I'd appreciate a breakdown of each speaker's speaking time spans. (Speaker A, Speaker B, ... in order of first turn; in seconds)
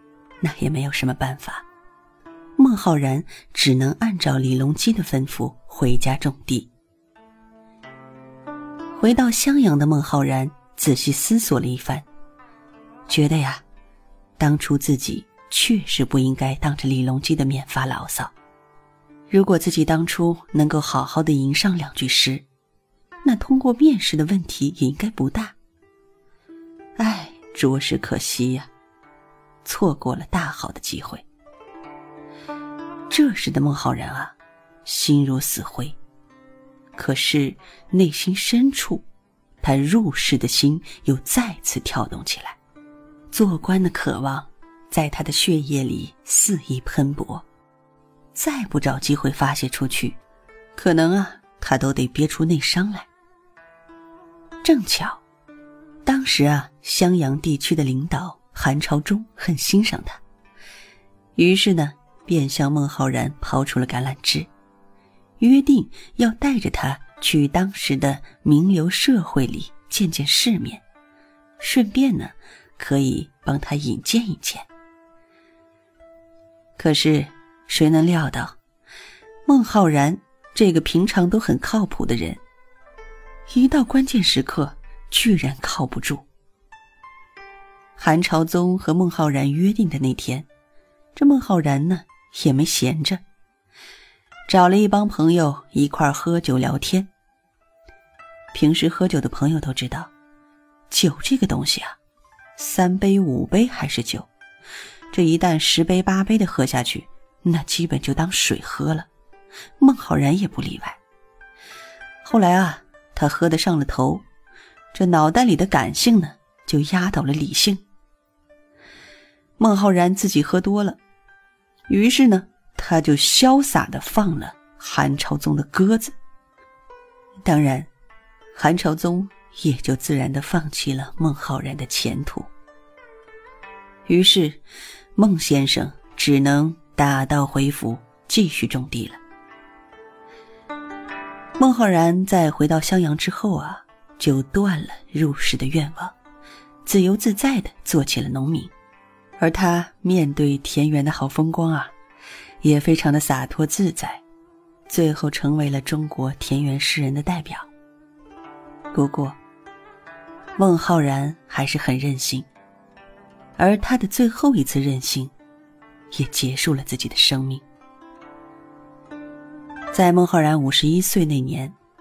Speaker A: 0.4-1.6, 2.6-6.7, 8.9-12.1, 13.1-13.6, 14.4-18.3, 19.3-22.4, 23.2-25.6, 27.0-28.7, 29.6-31.2, 33.1-34.3, 34.8-36.0, 36.9-39.0, 39.6-42.6, 43.3-47.4, 48.3-50.2, 50.8-53.1, 54.6-55.2, 56.0-60.2, 61.4-64.5, 65.4-70.8, 71.6-74.7, 76.8-78.5, 79.5-82.4, 83.5-86.2, 88.0-90.5, 91.1-93.2, 94.5-97.1, 98.5-100.1, 100.9-102.0, 102.6-104.3, 105.1-109.1, 109.8-111.0, 112.2-114.2, 114.9-117.8, 119.6-121.0, 121.9-126.1, 127.4-127.9, 128.5-132.5, 134.1-134.6, 135.2-139.2, 141.6-146.1, 146.8-148.7, 149.4-151.9, 152.6-154.2, 154.9-157.7, 158.9-159.4, 160.6-162.5, 163.6-165.3, 166.1-167.6, 169.9-171.7